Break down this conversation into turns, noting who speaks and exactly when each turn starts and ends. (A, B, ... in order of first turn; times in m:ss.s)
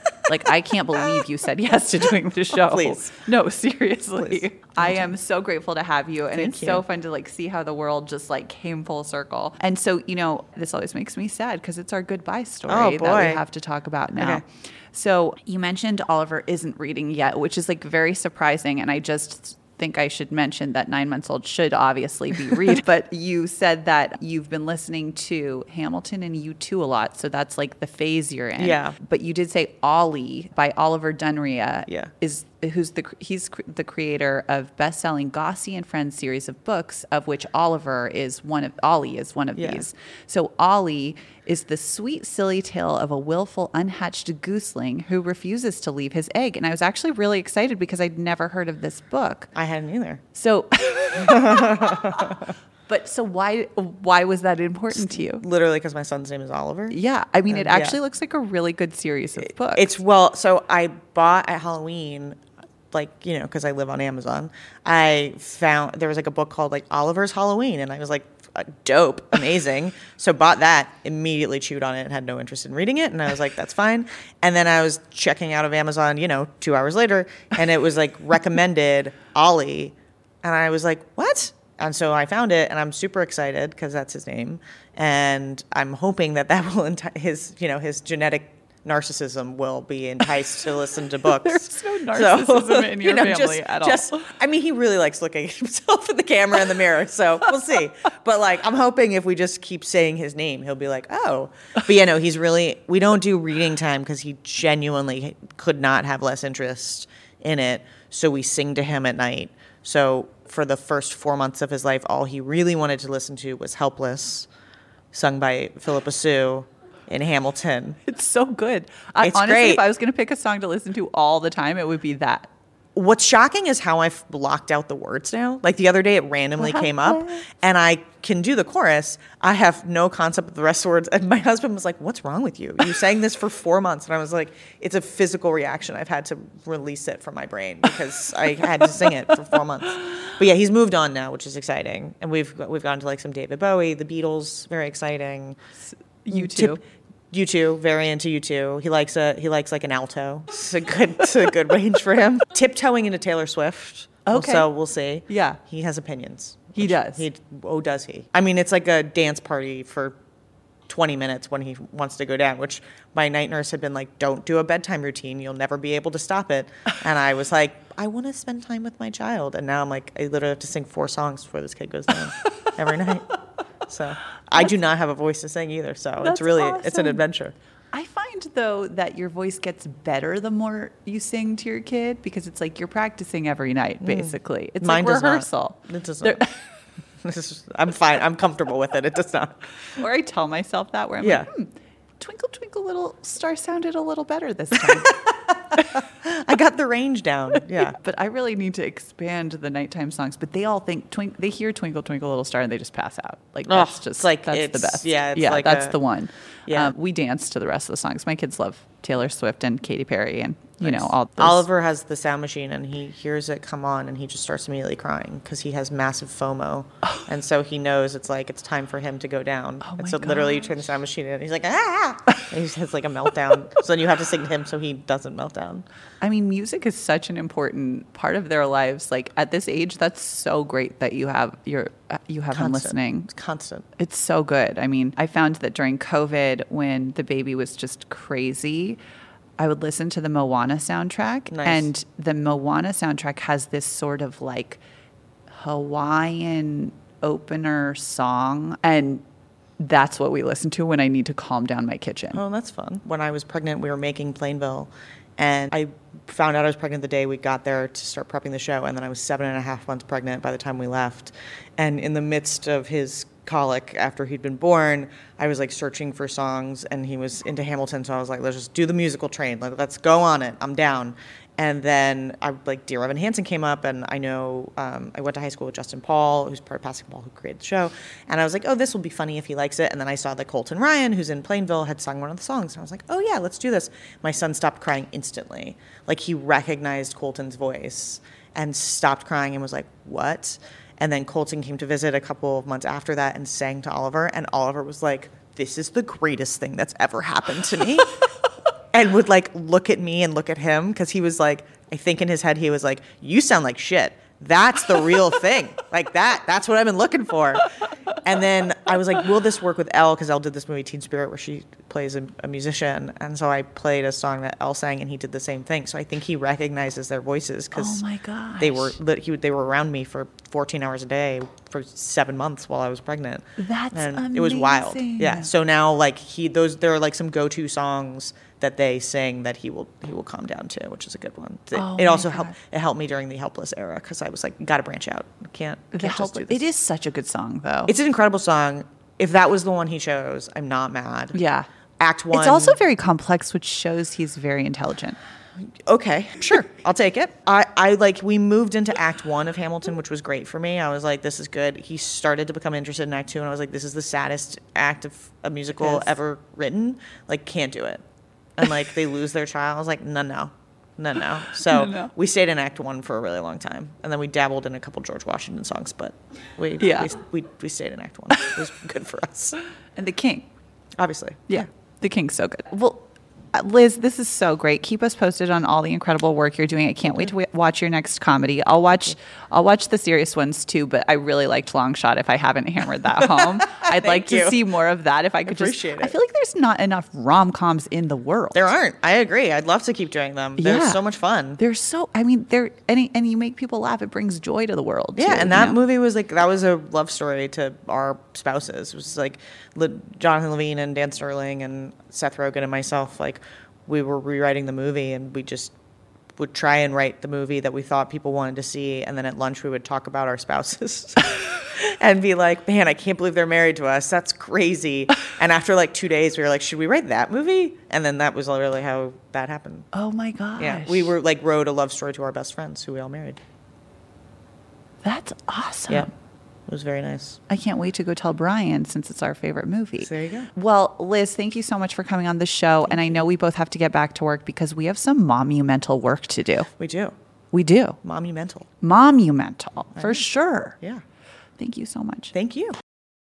0:00.2-0:49.5 A
0:02.5-0:03.1 B
0:04.2-0:05.1 B
0:06.3-0:06.8 B
0:12.7-0:13.4 B
0:14.2-0:14.4 B
0:28.6-0:29.0 B
0:39.6-0:39.8 B
0:49.6-0:50.2 B
0:50.3-0:55.4 A
0:51.2-0:52.5 B
0:55.0-0:57.0 B
0:56.9-0:59.9 A
0:57.5-0:58.0 B
0:59.7-1:02.4 B
1:02.9-1:54.5 B
1:31.3-1:34.3 A
1:55.1-1:58.0 B
1:58.1-2:02.5 A
1:59.2-1:59.9 B
2:03.0-2:25.6 B
2:06.6-2:07.4 A
2:26.2-2:26.8 A
2:26.3-2:26.8 B
2:27.3-2:40.2 B
2:34.3-2:34.7 A
2:35.3-2:35.6 A
2:36.8-2:37.3 A
2:40.9-2:57.6 B
2:56.2-2:57.2 A
2:57.9-3:06.6 A
3:04.0-3:06.5 B
3:07.2-3:10.0 B
3:10.0-3:15.2 A
3:11.2-3:11.5 B
3:15.0-3:18.0 B
3:17.8-3:31.7 A
3:23.7-3:26.0 B
3:26.7-3:26.9 B
3:30.8-3:45.8 B
3:39.8-3:40.7 A
3:46.2-3:53.3 A
3:52.5-3:53.9 B
3:54.0-3:59.0 A
3:59.6-4:04.8 A
4:01.5-4:01.9 B
4:05.5-4:09.2 A
4:09.8-4:12.4 A
4:12.3-4:58.2 B
4:58.9-5:07.6 B
5:08.2-5:18.0 B
5:17.8-5:19.0 A
5:18.6-5:36.6 B
5:23.6-5:25.5 A
5:31.7-5:32.6 A
5:35.9-5:37.9 A
5:37.9-5:41.4 B
5:41.3-5:41.7 A
5:42.0-5:42.8 B
5:42.3-5:45.2 A
5:45.6-5:58.0 B
5:55.8-5:56.1 A
5:58.6-6:09.6 B
6:01.7-6:02.1 A
6:06.8-6:07.1 A
6:10.0-6:10.5 A
6:11.0-6:11.7 B
6:11.5-6:28.7 A
6:23.2-6:24.6 B
6:25.5-6:26.2 B
6:28.5-6:31.6 B
6:30.6-6:31.0 A
6:31.6-6:35.8 A
6:35.2-6:45.7 B
6:46.4-6:59.9 B
6:59.9-7:01.1 A
7:00.6-7:03.4 B
7:05.0-7:06.1 A
7:06.7-7:07.4 B
7:07.5-7:16.7 A
7:10.0-7:10.5 B
7:16.8-7:17.2 B
7:17.5-7:18.0 A
7:18.0-7:18.7 B
7:18.8-7:20.8 A
7:21.6-7:22.3 A
7:22.3-7:22.8 B